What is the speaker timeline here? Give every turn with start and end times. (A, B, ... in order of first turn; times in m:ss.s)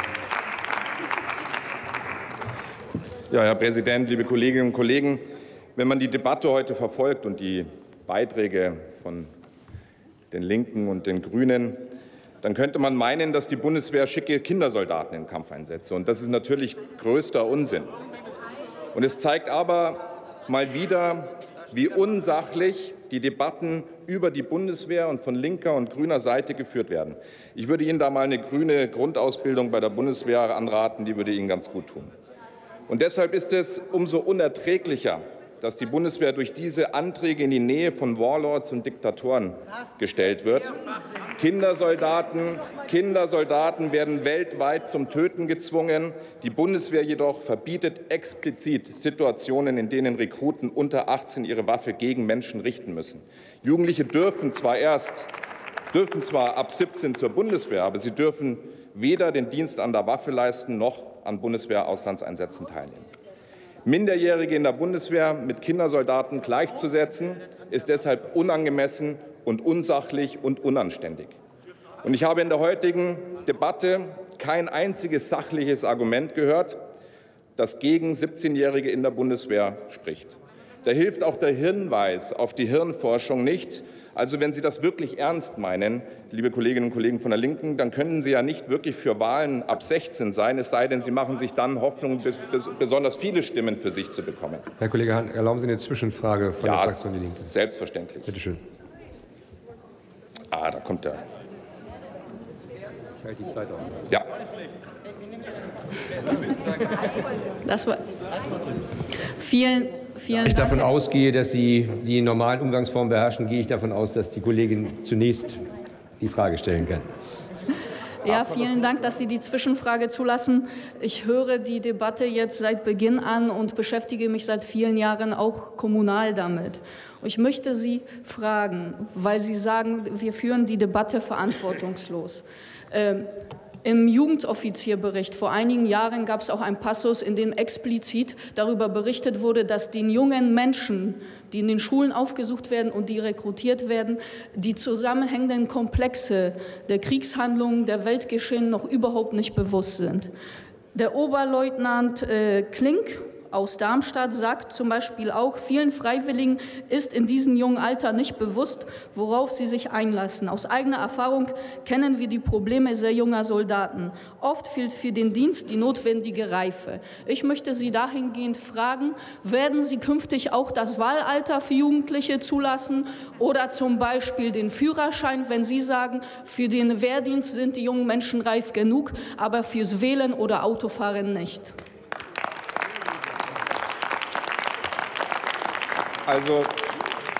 0:03.3-0:05.2 A
0:05.8-0:09.3 A
0:10.3-0:11.9 A
0:12.4-0:17.9 A
0:18.9-0:32.1 A
0:32.9-0:40.8 A
0:41.4-0:55.3 A
0:55.9-1:03.1 A
1:03.8-1:11.4 A
1:12.0-1:16.8 A
1:17.6-1:34.6 A
1:34.8-1:37.5 B
1:36.6-1:38.3 A
1:38.3-1:38.6 B
1:40.5-1:41.2 A
1:47.6-1:48.0 C
1:49.3-1:50.9 C
1:50.4-1:55.6 B
1:56.2-1:57.1 B
1:58.2-2:13.3 C
2:13.8-2:30.3 C
2:30.9-3:01.7 C
3:06.2-3:06.7 A